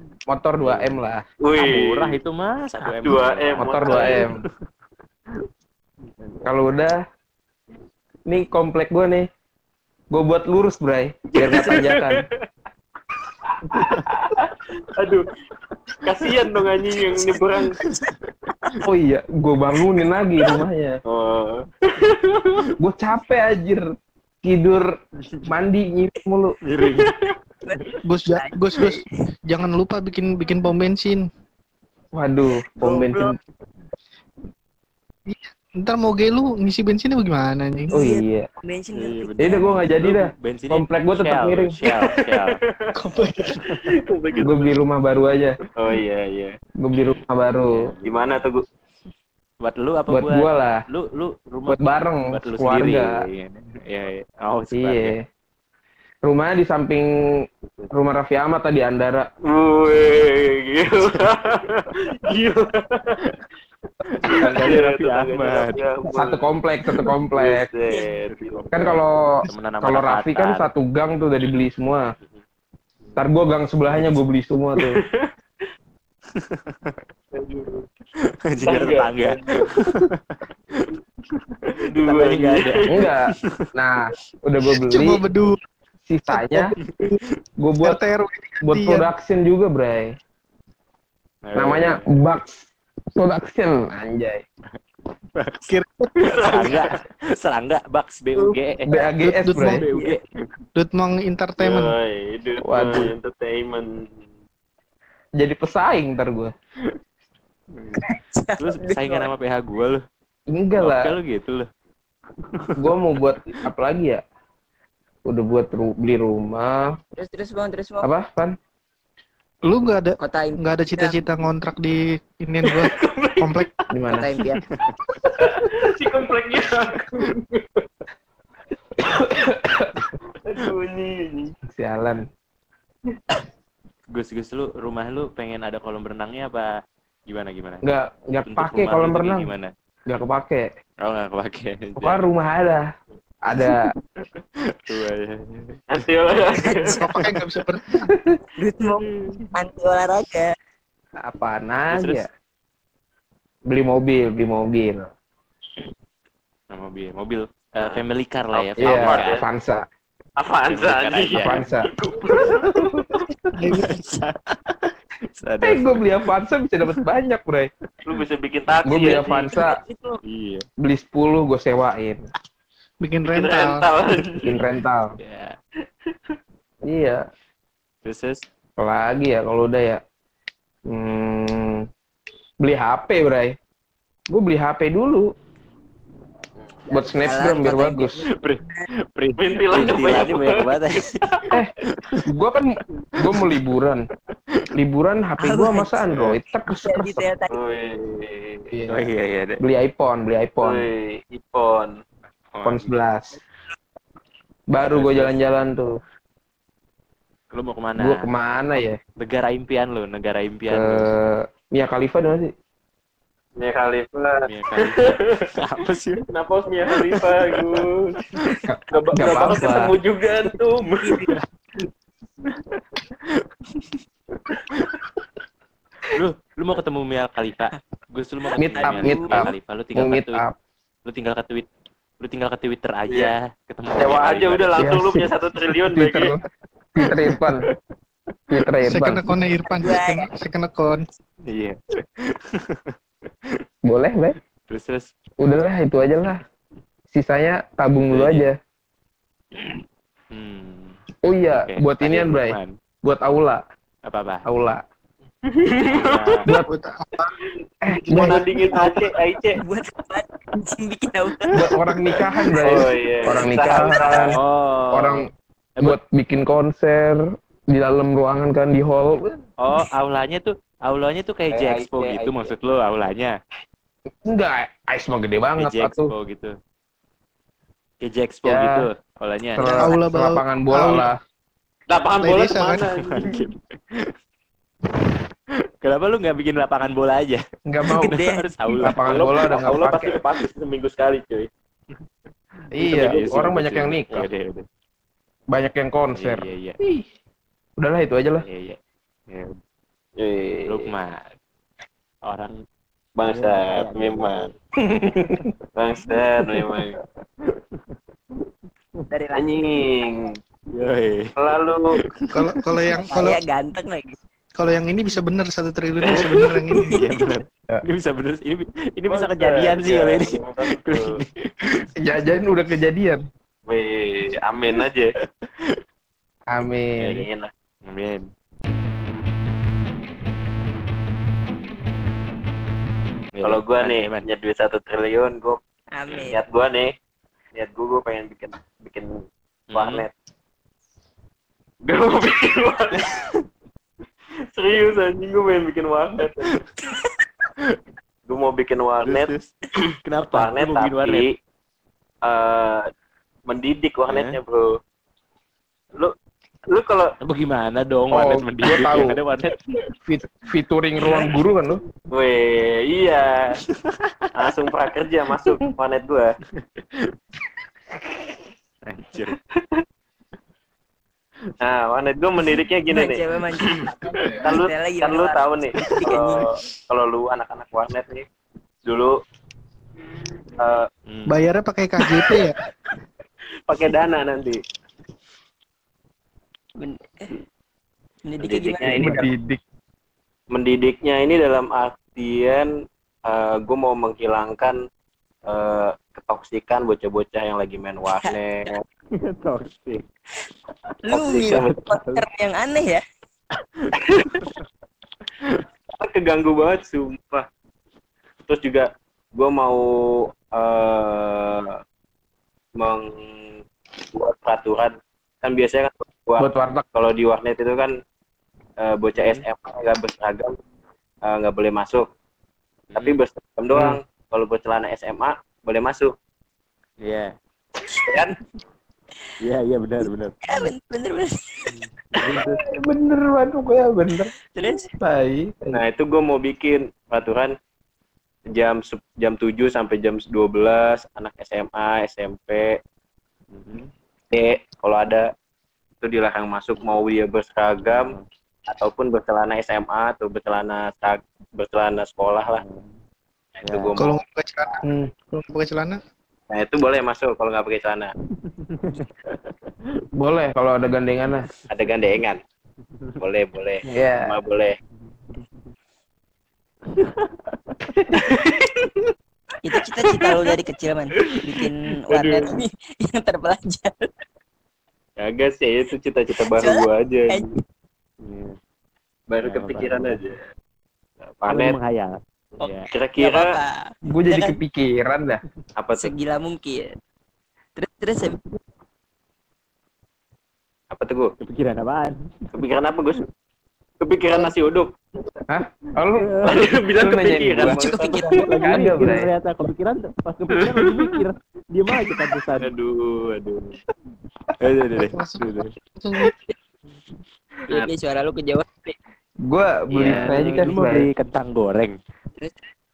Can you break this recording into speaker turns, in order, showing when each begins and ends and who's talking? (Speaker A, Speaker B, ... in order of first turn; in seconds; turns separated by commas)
Speaker A: 0.3-1.2, Speaker B: 0.6-1.0, Speaker C: 1.4-2.2, Speaker B: 1.6-4.5, Speaker C: 2.9-4.2, Speaker A: 3.6-4.4, Speaker B: 6.2-6.5, Speaker A: 6.5-7.0, Speaker A: 8.3-9.3, Speaker A: 10.1-12.3, Speaker C: 11.4-12.3, Speaker C: 13.6-15.3, Speaker C: 16.0-17.8, Speaker D: 17.3-18.1, Speaker A: 18.8-21.0, Speaker C: 21.1-22.5, Speaker A: 22.8-23.8, Speaker A: 24.4-24.9, Speaker A: 25.5-26.6, Speaker B: 26.6-27.3, Speaker C: 26.9-27.3, Speaker D: 27.6-29.0, Speaker E: 28.1-31.2, Speaker A: 32.1-33.3, Speaker D: 32.8-33.3, Speaker E: 35.3-37.9, Speaker D: 37.9-39.9, Speaker A: 37.9-38.5, Speaker B: 39.0-42.6, Speaker A: 39.4-41.8, Speaker C: 41.8-42.9, Speaker E: 43.0-43.6, Speaker C: 43.6-44.8, Speaker A: 44.4-45.6, Speaker C: 45.8-46.5, Speaker A: 46.8-47.9, Speaker B: 47.6-48.4, Speaker C: 48.0-48.6, Speaker B: 49.6-55.2, Speaker A: 50.1-50.8, Speaker A: 51.7-53.1, Speaker A: 54.8-55.2, Speaker A: 56.2-57.1, Speaker C: 57.7-57.9, Speaker A: 57.9-59.3, Speaker C: 59.5-63.2, Speaker B: 64.0-65.8, Speaker C: 64.3-66.5, Speaker A: 64.4-64.8, Speaker A: 66.1-67.7, Speaker C: 67.3-68.7, Speaker D: 67.9-68.2, Speaker B: 68.3-70.7, Speaker A: 68.7-72.0, Speaker A: 73.2-75.0, Speaker B: 73.9-74.2, Speaker C: 74.9-75.3, Speaker B: 76.3-77.0, Speaker C: 77.3-77.9, Speaker B: 78.3-80.9, Speaker C: 78.6-79.8, Speaker B: 81.4-83.7, Speaker C: 81.8-82.9, Speaker A: 82.9-85.2, Speaker E: 84.9-85.6, Speaker A: 86.1-86.7, Speaker E: 86.3-87.2, Speaker B: 86.8-87.3, Speaker A: 87.6-88.0, Speaker E: 87.8-89.1, Speaker A: 88.6-90.1, Speaker B: 91.5-92.2, Speaker A: 91.5-94.4, Speaker B: 95.3-98.9, Speaker E: 95.7-96.2, Speaker C: 96.2-97.0, Speaker D: 98.4-100.2, Speaker A: 98.9-99.8, Speaker E: 99.2-99.8, Speaker B: 99.6-100.3, Speaker E: 100.8-102.0, Speaker C: 101.6-104.2, Speaker A: 102.6-103.1, Speaker A: 105.4-106.5, Speaker B: 107.7-108.0, Speaker D: 108.0-109.3, Speaker B: 108.6-110.0, Speaker A: 110.5-111.2, Speaker B: 110.8-111.7, Speaker B: 112.5-113.0, Speaker A: 112.8-114.2, Speaker A: 115.3-117.0, Speaker D: 117.2-118.1, Speaker A: 118.0-118.6, Speaker E: 119.6-123.7, Speaker D: 120.2-121.3, Speaker C: 122.6-123.8, Speaker A: 123.9-124.3, Speaker D: 124.1-124.6, Speaker B: 124.6-125.0, Speaker C: 125.4-127.9, Speaker A: 129.0-130.1, Speaker C: 130.4-131.6, Speaker A: 131.7-132.2, Speaker B: 134.1-136.7, Speaker B: 137.3-137.8, Speaker A: 137.8-139.5, Speaker B: 138.4-139.7, Speaker A: 140.1-140.7, Speaker B: 141.0-142.2, Speaker A: 142.0-142.9, Speaker A: 143.4-143.9, Speaker B: 143.6-145.8, Speaker C: 145.9-147.1, Speaker D: 146.5-147.2, Speaker E: 147.0-148.1, Speaker A: 148.1-148.3, Speaker D: 148.6-150.5, Speaker B: 149.1-149.4, Speaker A: 151.2-152.3, Speaker A: 153.7-155.1, Speaker B: 156.7-159.4, Speaker C: 157.8-159.4, Speaker A: 158.8-159.8, Speaker C: 160.4-163.0, Speaker B: 160.7-161.7, Speaker A: 161.3-161.9, Speaker E: 163.6-164.2, Speaker B: 163.6-166.1, Speaker A: 165.6-167.7, Speaker C: 168.1-169.5, Speaker A: 168.9-169.7, Speaker D: 169.2-170.2, Speaker B: 170.2-170.7, Speaker A: 170.8-172.3, Speaker E: 173.0-173.9, Speaker C: 173.3-174.5, Speaker A: 174.4-175.2, Speaker B: 175.2-175.6, Speaker A: 176.8-177.2, Speaker B: 178.1-178.4, Speaker A: 178.8-180.0, Speaker A: 180.9-181.9, Speaker A: 182.6-183.6, Speaker A: 184.3-185.3, Speaker D: 186.9-188.9, Speaker A: 186.9-188.2, Speaker B: 188.4-192.2, Speaker C: 189.4-191.0, Speaker A: 192.3-194.1, Speaker B: 193.2-193.6, Speaker A: 194.7-197.3, Speaker D: 195.4-196.0, Speaker B: 196.1-196.4, Speaker D: 196.7-197.6, Speaker C: 197.5-198.7, Speaker A: 198.7-200.9, Speaker B: 198.9-199.6, Speaker C: 200.6-202.0, Speaker B: 202.5-202.9, Speaker A: 202.6-203.4, Speaker A: 204.7-206.0, Speaker B: 204.8-205.4, Speaker B: 207.5-208.3, Speaker A: 208.0-209.0, Speaker B: 209.2-211.1, Speaker A: 210.7-212.5, Speaker C: 213.6-215.3, Speaker B: 214.5-216.3, Speaker C: 216.3-218.2, Speaker B: 216.9-218.6, Speaker A: 218.7-220.0, Speaker C: 218.9-221.3, Speaker D: 221.0-221.4, Speaker B: 222.5-224.0, Speaker B: 224.7-225.0, Speaker B: 226.1-230.4, Speaker A: 228.6-230.6, Speaker C: 228.8-229.2, Speaker D: 229.0-229.4, Speaker B: 231.1-231.7, Speaker B: 232.2-234.9, Speaker C: 234.0-236.3, Speaker A: 234.8-235.3, Speaker A: 235.9-236.4, Speaker A: 237.0-237.7, Speaker B: 237.0-237.7, Speaker A: 238.5-239.2, Speaker E: 238.8-241.1, Speaker D: 239.7-240.3, Speaker B: 241.5-243.6, Speaker A: 243.8-244.4, Speaker B: 244.7-245.1, Speaker A: 245.4-246.4, Speaker A: 247.1-248.6, Speaker B: 248.1-248.4, Speaker B: 250.3-251.0, Speaker A: 251.2-253.6, Speaker B: 251.5-252.7, Speaker B: 254.1-254.5, Speaker A: 254.5-254.8, Speaker C: 255.5-256.4, Speaker B: 255.9-256.5, Speaker E: 256.6-257.3, Speaker C: 257.6-259.6, Speaker A: 257.9-258.4, Speaker E: 258.1-259.0, Speaker D: 259.6-261.7, Speaker A: 261.6-264.4, Speaker D: 262.4-262.6, Speaker C: 262.6-264.3, Speaker D: 263.6-264.2, Speaker B: 264.3-266.0, Speaker A: 264.9-265.3, Speaker A: 265.8-269.4, Speaker B: 269.6-273.4, Speaker C: 271.5-272.5, Speaker A: 274.2-276.1, Speaker B: 275.6-276.5, Speaker B: 278.0-279.9, Speaker A: 278.4-278.9, Speaker A: 279.6-281.2, Speaker E: 279.8-281.1, Speaker C: 281.9-283.4, Speaker E: 282.2-282.9, Speaker B: 283.1-284.1, Speaker B: 285.8-287.4, Speaker A: 287.7-288.2, Speaker D: 287.9-288.8, Speaker B: 288.0-290.1, Speaker A: 288.8-290.1, Speaker C: 289.0-291.5, Speaker B: 292.7-294.6, Speaker A: 292.7-294.3, Speaker C: 292.8-293.4, Speaker A: 295.5-297.1, Speaker B: 296.1-296.8, Speaker A: 297.8-298.5, Speaker B: 298.4-298.8, Speaker B: 299.3-299.6, Speaker C: 300.2-300.9, Speaker B: 300.7-301.4, Speaker B: 302.2-302.6, Speaker C: 303.2-304.5, Speaker B: 303.3-304.6, Speaker A: 304.8-305.5, Speaker B: 305.1-305.5, Speaker C: 305.8-307.0, Speaker B: 306.5-309.0, Speaker D: 309.1-309.9, Speaker C: 309.3-310.4, Speaker B: 310.7-311.3, Speaker C: 311.4-312.0, Speaker B: 311.9-312.8, Speaker E: 312.3-313.4, Speaker D: 313.0-314.2, Speaker E: 314.6-317.0, Speaker B: 316.7-321.9, Speaker D: 316.9-317.2, Speaker C: 319.1-321.2, Speaker A: 322.0-323.2, Speaker C: 323.7-325.1, Speaker B: 325.4-325.8, Speaker A: 326.5-327.2, Speaker B: 327.0-327.3, Speaker C: 327.1-327.5, Speaker B: 327.9-328.3, Speaker B: 333.4-334.2, Speaker C: 333.4-335.6, Speaker D: 335.9-336.4, Speaker C: 336.3-336.9, Speaker C: 337.6-340.1, Speaker B: 339.7-340.1, Speaker C: 341.8-343.1, Speaker B: 342.9-343.4, Speaker C: 344.6-346.5, Speaker C: 348.3-349.3, Speaker B: 349.0-349.5, Speaker B: 350.0-351.3, Speaker C: 350.3-351.3, Speaker C: 352.2-352.9, Speaker C: 353.5-354.8, Speaker B: 354.1-354.4, Speaker C: 356.7-357.1, Speaker B: 357.2-359.6, Speaker A: 358.1-359.2, Speaker A: 360.1-361.8, Speaker C: 362.1-363.6, Speaker B: 363.7-364.3, Speaker C: 364.4-366.4, Speaker B: 366.6-367.1, Speaker B: 368.9-369.4, Speaker C: 371.6-378.3, Speaker D: 372.9-376.5, Speaker B: 374.1-374.4, Speaker C: 378.9-379.2, Speaker C: 380.6-380.9, Speaker B: 381.1-381.4, Speaker E: 381.3-382.6, Speaker C: 383.7-384.6, Speaker D: 386.8-387.3, Speaker D: 388.2-389.3, Speaker C: 388.4-389.2, Speaker A: 388.9-389.6, Speaker C: 390.5-392.7, Speaker C: 393.3-394.8, Speaker C: 395.5-398.8, Speaker B: 399.2-400.0, Speaker D: 401.1-403.0, Speaker C: 401.1-401.7, Speaker B: 401.6-402.2, Speaker B: 403.8-404.6, Speaker C: 404.1-404.5, Speaker C: 406.0-407.5, Speaker C: 408.5-411.8, Speaker C: 412.8-417.9, Speaker A: 416.4-416.9, Speaker C: 418.8-420.6, Speaker B: 419.1-419.4, Speaker C: 421.2-422.1, Speaker B: 422.9-423.2, Speaker C: 423.0-426.1, Speaker B: 427.0-427.3, Speaker C: 427.9-428.4, Speaker B: 429.4-430.4, Speaker D: 430.4-431.7, Speaker B: 431.7-432.6, Speaker A: 432.3-434.3, Speaker D: 434.5-434.9, Speaker A: 435.0-435.8, Speaker C: 435.7-437.6, Speaker C: 438.5-442.8, Speaker B: 443.5-443.9, Speaker C: 444.3-445.3, Speaker C: 446.0-448.1, Speaker B: 447.8-448.3, Speaker C: 448.7-452.6, Speaker B: 452.5-453.0, Speaker C: 453.6-454.1, Speaker B: 453.6-454.0, Speaker E: 454.0-456.0, Speaker A: 454.9-455.1, Speaker C: 456.5-458.1, Speaker B: 458.3-460.0, Speaker A: 460.2-461.5, Speaker C: 461.7-462.4, Speaker C: 463.2-464.8, Speaker A: 463.9-464.4, Speaker B: 466.9-468.0, Speaker C: 468.1-469.1, Speaker D: 469.6-474.1, Speaker C: 472.1-472.6, Speaker C: 475.2-477.4, Speaker D: 476.4-477.6, Speaker B: 478.2-478.6, Speaker C: 479.3-480.5, Speaker B: 479.4-480.2, Speaker C: 481.3-481.8, Speaker B: 481.5-482.9, Speaker C: 482.9-483.5, Speaker D: 483.2-484.6, Speaker A: 484.0-485.4, Speaker C: 485.8-486.1, Speaker D: 486.0-487.0, Speaker D: 487.8-488.6, Speaker C: 490.9-491.4, Speaker B: 491.4-492.5, Speaker C: 492.5-493.2, Speaker C: 494.0-494.9, Speaker A: 495.5-496.3, Speaker B: 496.1-496.8, Speaker C: 496.4-498.5, Speaker A: 497.0-497.8, Speaker D: 497.6-498.5, Speaker E: 498.2-498.6, Speaker B: 498.3-502.7, Speaker A: 498.6-499.3, Speaker C: 500.8-501.1, Speaker C: 502.6-503.8, Speaker B: 504.6-505.7, Speaker E: 504.9-506.3, Speaker D: 507.7-509.0, Speaker A: 509.5-511.1, Speaker C: 509.9-510.7, Speaker B: 510.1-512.0, Speaker D: 512.4-512.7